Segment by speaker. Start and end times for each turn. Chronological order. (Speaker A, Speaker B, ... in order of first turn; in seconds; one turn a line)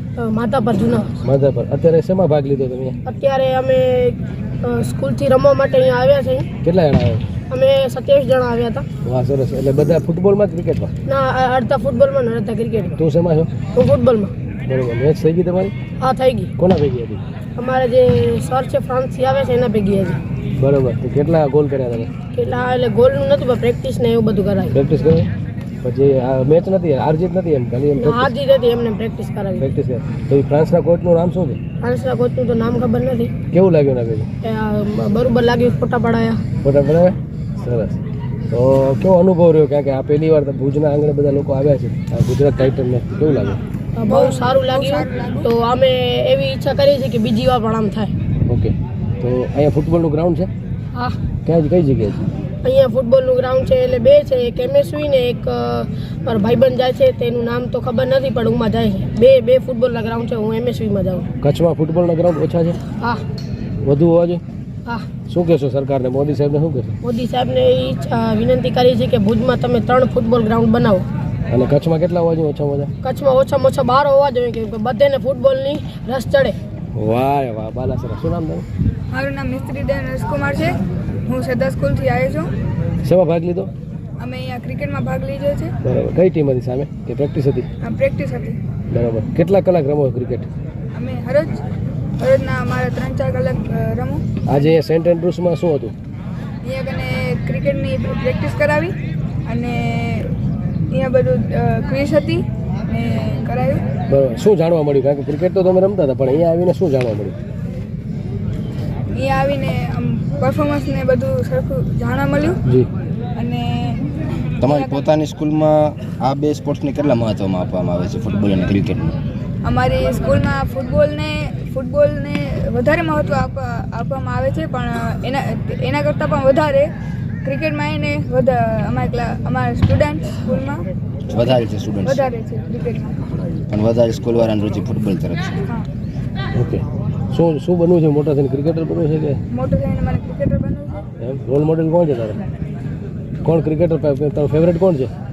Speaker A: 0.1-1.1
Speaker B: 1.2-3.0
Speaker A: 3.0-6.5
Speaker B: 6.6-7.2
Speaker A: 7.5-8.8
Speaker B: 9.0-10.9
Speaker A: 11.1-12.9
Speaker B: 12.9-13.5
Speaker A: 13.7-14.3
Speaker B: 14.7-15.7
Speaker A: 16.0-16.5
Speaker B: 16.6-17.2
Speaker A: 17.6-20.2
Speaker B: 20.6-22.1
Speaker A: 22.3-24.8
Speaker B: 24.7-25.3
Speaker B: 25.8-28.3
Speaker A: 28.0-29.7
Speaker B: 29.5-31.6
Speaker A: 31.8-33.3
Speaker B: 33.5-34.3
Speaker A: 34.4-36.4
Speaker B: 36.6-38.0
Speaker B: 38.5-43.6
Speaker A: 43.9-48.1
Speaker C: 44.1-45.5
Speaker B: 48.5-50.5
Speaker B: 51.4-52.2
Speaker A: 52.6-61.3
Speaker B: 61.4-62.8
Speaker A: 63.0-63.2
Speaker B: 63.8-64.4
Speaker B: 65.3-67.0
Speaker A: 67.0-71.1
Speaker B: 71.5-72.9
Speaker A: 73.0-76.6
Speaker B: 76.9-78.7
Speaker C: 79.1-82.5
Speaker B: 83.0-83.7
Speaker C: 84.2-85.7
Speaker B: 85.8-87.7
Speaker C: 87.8-88.6
Speaker B: 88.9-90.5
Speaker C: 90.9-91.6
Speaker C: 92.2-94.2
Speaker B: 94.5-95.9
Speaker C: 96.6-100.3
Speaker C: 100.9-103.8
Speaker B: 104.1-107.4
Speaker C: 109.1-112.6
Speaker C: 113.3-114.0
Speaker D: 114.6-119.2
Speaker C: 114.6-115.0
Speaker C: 119.6-126.9
Speaker C: 127.4-130.8
Speaker D: 131.3-132.2
Speaker C: 132.0-133.2
Speaker D: 133.7-135.6
Speaker B: 136.5-139.4
Speaker C: 139.5-141.0
Speaker B: 141.2-142.4
Speaker B: 143.4-145.1